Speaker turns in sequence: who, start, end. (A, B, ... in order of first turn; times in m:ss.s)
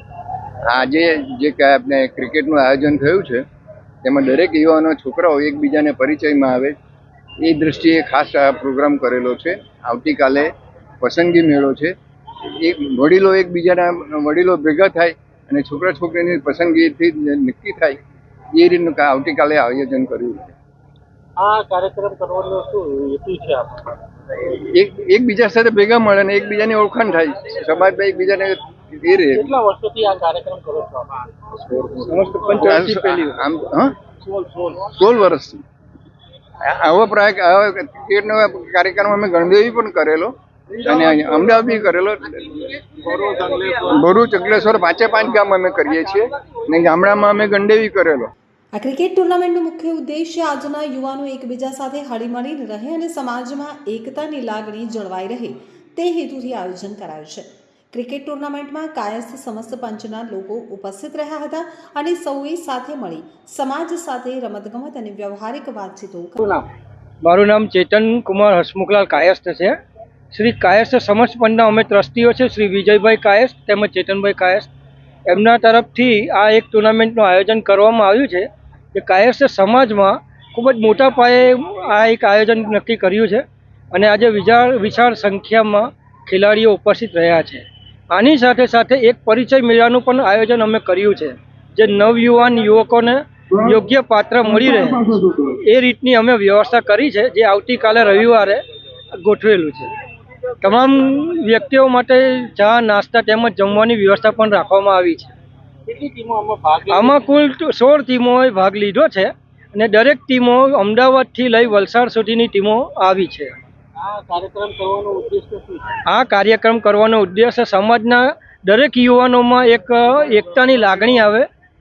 0:00.7-0:03.4 A
0:04.0-0:06.7 A
0:07.4-0:11.9 A
0:12.6-0:18.0 A
0:18.5-0:20.5 A
0:21.4-0:23.9 B
0:24.4-0:29.5 A
0:29.3-0:31.7 B
0:32.0-0:33.4 C
0:32.5-0:33.9 A
0:34.5-0:35.6 A
0:36.6-0:48.3 A
0:43.2-0:43.8 B
0:48.7-1:06.4 D
1:06.4-1:06.7 B
1:07.2-1:09.7 C
1:10.3-1:14.7 C
1:15.3-1:38.6 C
1:34.7-1:35.5 A
1:39.2-1:39.9 C
1:40.6-1:45.3 C
1:45.8-1:47.3 B
1:46.9-1:53.5 C
1:54.0-1:56.0 B
1:56.0-2:01.5 C